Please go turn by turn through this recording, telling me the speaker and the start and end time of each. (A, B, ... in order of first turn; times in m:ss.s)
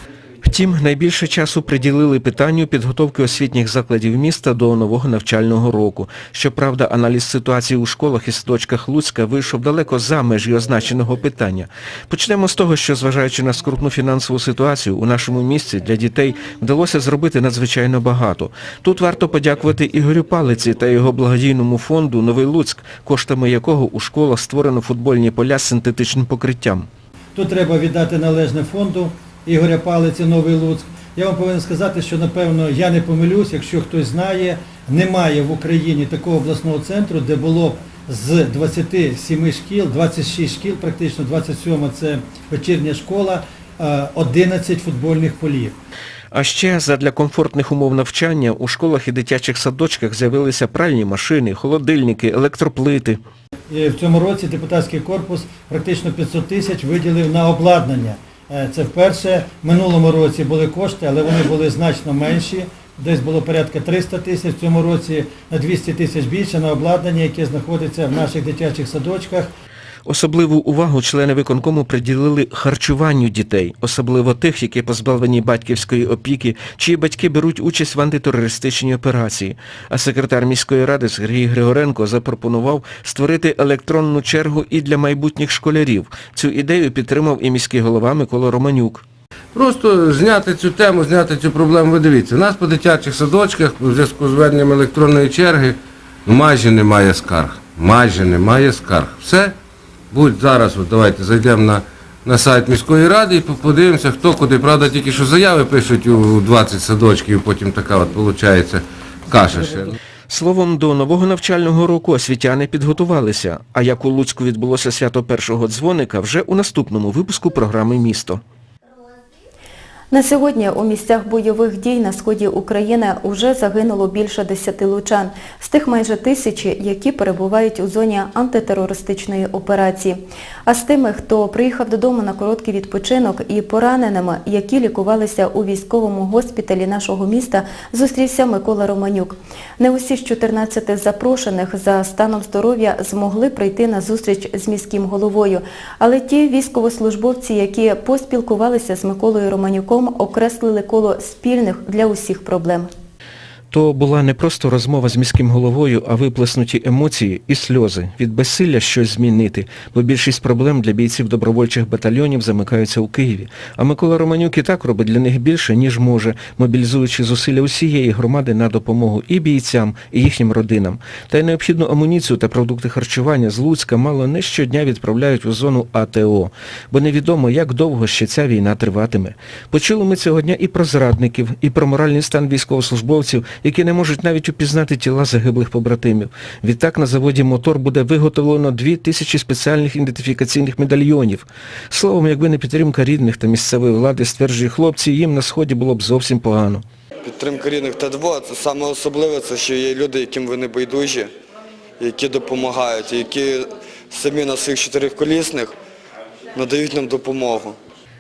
0:00.4-0:26.9 A
0:27.4-0:45.8 B
0:46.3-0:53.2 A
0:53.7-1:09.5 B
1:10.1-1:29.0 A
1:29.6-1:39.6 C
1:40.1-1:50.0 C
1:50.3-1:58.4 A
2:00.1-2:32.9 D
2:33.7-3:16.8 A
3:17.2-3:21.3 E
3:22.0-3:25.7 E
3:26.6-3:27.8 E